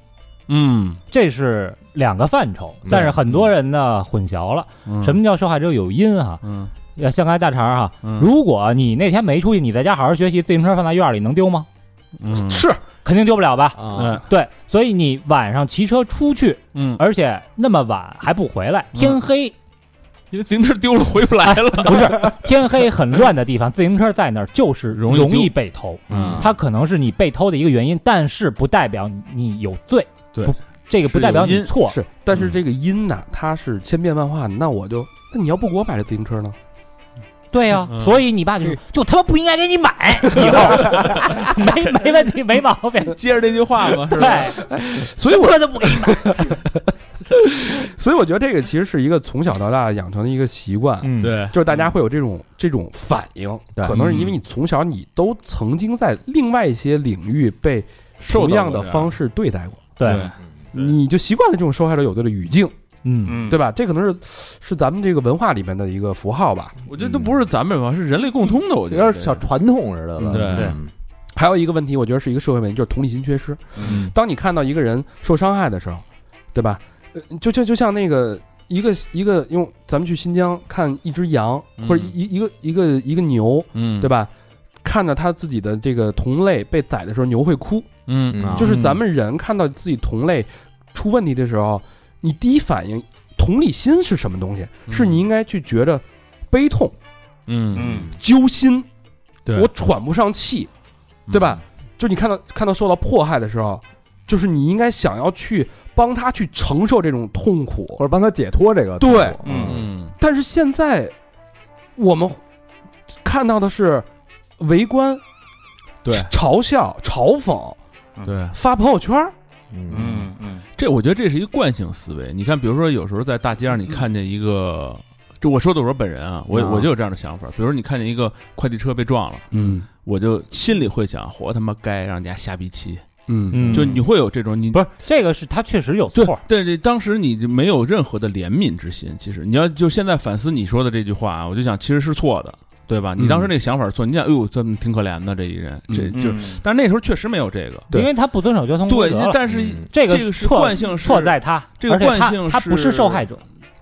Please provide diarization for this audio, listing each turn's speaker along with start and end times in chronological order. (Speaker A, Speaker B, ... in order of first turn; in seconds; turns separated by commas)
Speaker A: 0.5-1.0, Speaker B: 1.1-6.4, Speaker A: 2.9-3.5, Speaker A: 4.9-5.2, Speaker A: 6.4-6.7, Speaker B: 7.0-11.7, Speaker A: 8.0-8.3, Speaker A: 12.2-12.6, Speaker C: 12.4-12.8, Speaker B: 12.9-19.5, Speaker D: 13.8-14.2, Speaker A: 13.9-14.2, Speaker A: 16.8-17.0, Speaker A: 18.9-19.2, Speaker A: 20.3-22.4, Speaker B: 21.4-32.0, Speaker A: 24.9-25.6, Speaker D: 26.1-26.5, Speaker A: 26.1-26.6, Speaker A: 30.3-31.7, Speaker C: 31.8-36.6, Speaker B: 37.5-43.2, Speaker A: 37.9-38.2, Speaker D: 40.8-41.4, Speaker A: 43.1-44.6, Speaker B: 44.0-46.5, Speaker C: 44.8-46.7, Speaker C: 47.3-59.9, Speaker B: 51.0-51.3, Speaker A: 51.2-51.8, Speaker A: 53.9-54.4, Speaker A: 58.2-59.1, Speaker B: 60.0-60.3, Speaker A: 60.0-61.0, Speaker C: 60.7-62.8, Speaker B: 63.0-63.5, Speaker E: 63.2-63.6, Speaker C: 63.3-66.8, Speaker A: 66.9-69.5, Speaker D: 67.0-67.3, Speaker D: 68.9-70.9, Speaker A: 70.2-70.8, Speaker E: 70.3-70.8, Speaker C: 71.4-84.3, Speaker A: 81.8-82.1, Speaker A: 83.7-84.1, Speaker C: 84.8-97.0, Speaker A: 88.1-89.0, Speaker D: 88.3-88.8, Speaker A: 94.9-95.2, Speaker A: 97.5-98.1, Speaker E: 97.7-98.1, Speaker C: 98.1-98.9, Speaker C: 99.5-100.7, Speaker A: 101.3-101.6, Speaker C: 101.3-108.0, Speaker D: 108.0-109.9, Speaker C: 109.0-109.4, Speaker E: 109.4-109.8, Speaker A: 109.5-110.1, Speaker C: 110.2-111.1, Speaker C: 112.0-112.4, Speaker C: 113.2-114.1, Speaker C: 114.6-115.2, Speaker A: 116.0-116.3, Speaker C: 116.1-117.8, Speaker A: 118.2-118.6, Speaker C: 118.5-119.3, Speaker D: 119.7-120.3, Speaker E: 119.9-120.7, Speaker A: 120.8-133.1, Speaker C: 126.5-126.8, Speaker D: 126.6-126.8, Speaker C: 129.5-129.9, Speaker C: 133.3-134.0, Speaker B: 133.5-134.1, Speaker A: 133.7-134.9, Speaker B: 134.7-136.4, Speaker A: 136.2-147.9, Speaker C: 143.2-143.5, Speaker C: 145.9-146.1, Speaker E: 146.2-146.6, Speaker B: 147.9-153.4, Speaker A: 148.9-153.2, Speaker D: 149.5-149.9